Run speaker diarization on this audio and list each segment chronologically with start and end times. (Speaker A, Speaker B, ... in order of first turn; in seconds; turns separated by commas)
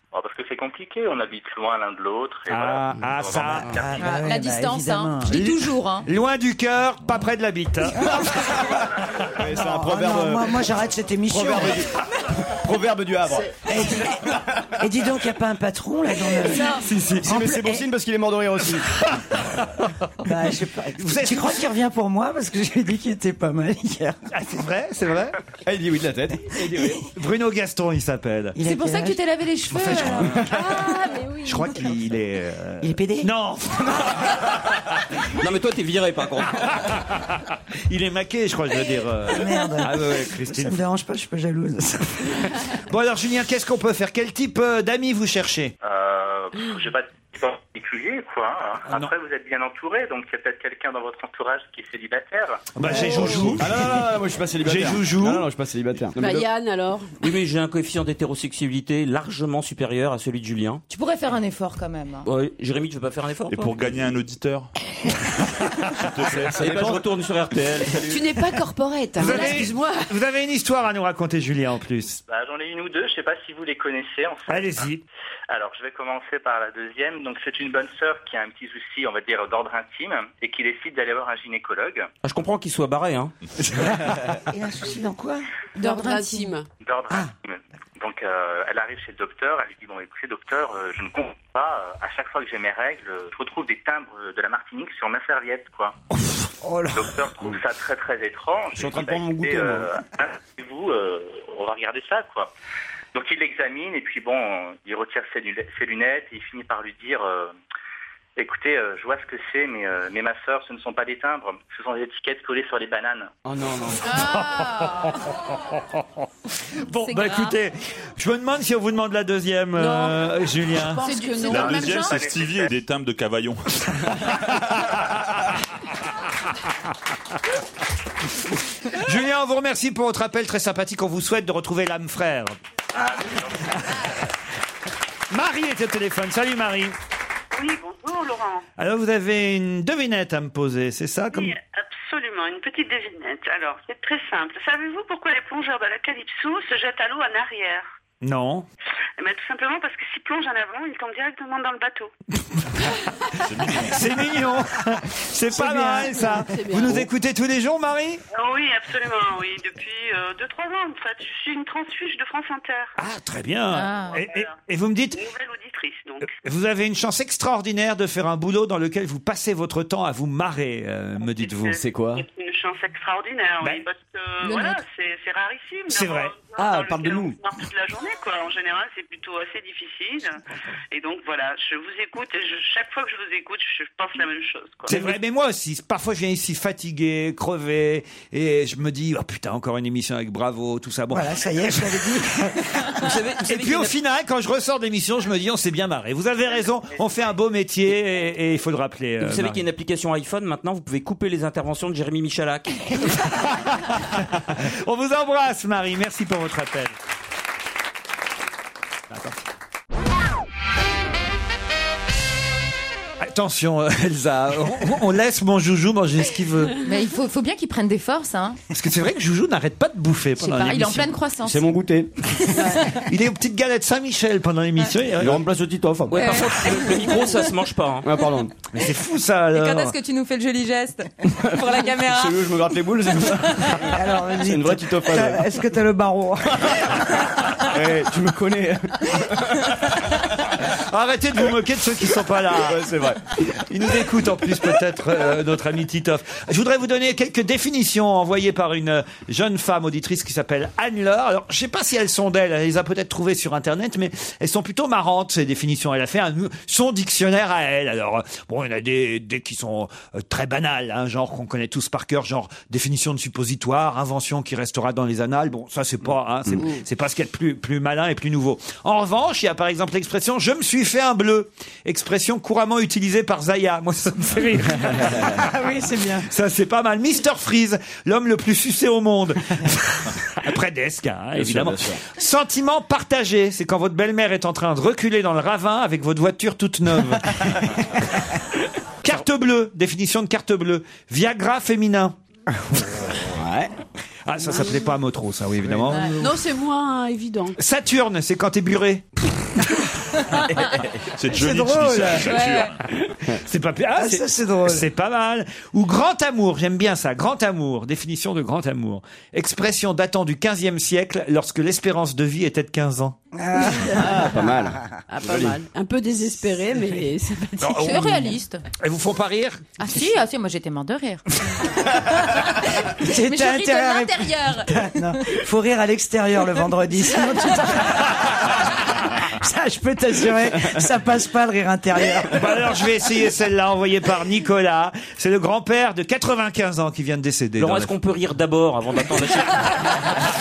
Speaker A: 0.1-4.1, Speaker B: 2.5-3.9, Speaker C: 3.7-5.5, Speaker D: 4.0-6.1, Speaker B: 5.3-8.1, Speaker C: 8.0-11.8, Speaker E: 9.3-10.6, Speaker E: 11.3-11.9, Speaker E: 12.4-13.5, Speaker C: 13.6-17.8, Speaker B: 16.8-17.4, Speaker E: 17.2-19.0, Speaker C: 20.2-24.2, Speaker B: 21.0-21.7, Speaker B: 24.3-25.4, Speaker E: 25.6-27.1, Speaker B: 27.1-28.6, Speaker C: 28.6-29.2, Speaker D: 28.6-30.4, Speaker B: 29.7-30.9, Speaker F: 30.4-31.9, Speaker B: 31.4-34.4, Speaker C: 32.8-33.3, Speaker G: 35.4-36.7, Speaker B: 37.9-40.8, Speaker C: 39.3-42.5, Speaker B: 42.7-45.7, Speaker A: 45.8-52.7, Speaker B: 48.9-49.1, Speaker B: 52.8-54.1, Speaker E: 52.8-56.5, Speaker B: 54.6-55.5, Speaker F: 56.2-57.1, Speaker G: 57.2-60.8, Speaker D: 60.9-62.3, Speaker G: 62.2-63.7, Speaker H: 63.5-64.7, Speaker H: 66.0-66.5, Speaker E: 66.2-67.0, Speaker G: 66.6-67.9, Speaker E: 67.9-68.2, Speaker F: 68.0-70.1, Speaker B: 69.2-72.2, Speaker A: 72.3-74.9, Speaker B: 74.5-75.0, Speaker A: 75.5-82.1, Speaker G: 82.2-83.3, Speaker C: 83.7-85.4, Speaker F: 85.8-86.7, Speaker D: 85.8-86.6, Speaker A: 86.8-95.9, Speaker C: 96.6-97.3, Speaker A: 96.9-102.5, Speaker E: 98.8-99.9, Speaker A: 103.1-107.5, Speaker A: 108.4-113.3, Speaker E: 113.4-114.0, Speaker D: 114.0-115.2, Speaker B: 114.1-116.0, Speaker B: 116.9-121.1, Speaker D: 116.9-117.5, Speaker F: 119.8-122.1, Speaker D: 121.0-122.2, Speaker H: 121.4-124.3, Speaker A: 122.0-122.7, Speaker B: 128.9-132.6, Speaker B: 135.3-137.0, Speaker I: 137.5-138.6, Speaker B: 138.8-141.6, Speaker I: 141.3-147.9, Speaker B: 148.2-148.7, Speaker I: 149.2-152.1, Speaker H: 153.4-154.1, Speaker B: 153.8-158.2, Speaker F: 155.5-157.1, Speaker I: 158.3-162.9, Speaker B: 163.0-165.2, Speaker D: 163.7-164.2, Speaker I: 164.1-164.5, Speaker I: 165.1-166.3, Speaker B: 166.3-171.8, Speaker I: 171.2-180.4, Speaker E: 171.7-172.2, Speaker D: 174.4-174.8, Speaker B: 175.9-176.4, Speaker E: 176.6-177.4, Speaker I: 180.9-184.9, Speaker B: 184.9-191.3, Speaker C: 191.1-192.8, Speaker G: 193.0-193.9, Speaker B: 193.4-199.6, Speaker G: 199.2-203.0, Speaker B: 203.3-206.9, Speaker B: 209.1-209.4, Speaker B: 213.2-216.8, Speaker D: 216.8-218.6, Speaker B: 218.7-221.2, Speaker D: 220.4-221.7, Speaker E: 221.4-222.1, Speaker F: 222.5-222.9, Speaker D: 222.7-223.0, Speaker B: 223.0-225.4, Speaker E: 225.2-226.7, Speaker G: 226.1-228.1, Speaker D: 226.1-227.3, Speaker E: 228.0-228.5, Speaker B: 228.7-230.0, Speaker D: 229.5-232.5, Speaker E: 231.2-233.9, Speaker D: 233.3-233.8, Speaker C: 233.8-237.0, Speaker E: 234.4-235.4, Speaker E: 237.7-239.9, Speaker B: 240.8-242.8, Speaker E: 242.6-243.2, Speaker B: 243.6-275.5, Speaker C: 275.3-276.3, Speaker B: 276.3-288.0, Speaker E: 281.4-282.0, Speaker B: 289.0-292.1, Speaker E: 293.3-293.7, Speaker B: 294.2-296.2, Speaker F: 296.2-297.6, Speaker B: 297.6-299.2, Speaker E: 300.6-301.0, Speaker H: 301.1-302.8, Speaker C: 301.3-302.4, Speaker D: 302.2-302.7, Speaker B: 303.3-313.1, Speaker C: 303.9-304.9, Speaker C: 313.3-314.2, Speaker F: 313.6-314.1, Speaker E: 313.9-315.6, Speaker F: 315.1-318.3, Speaker B: 317.6-319.7, Speaker D: 317.8-318.6, Speaker D: 319.8-325.0, Speaker C: 323.0-332.5, Speaker B: 332.3-337.9, Speaker G: 337.6-340.1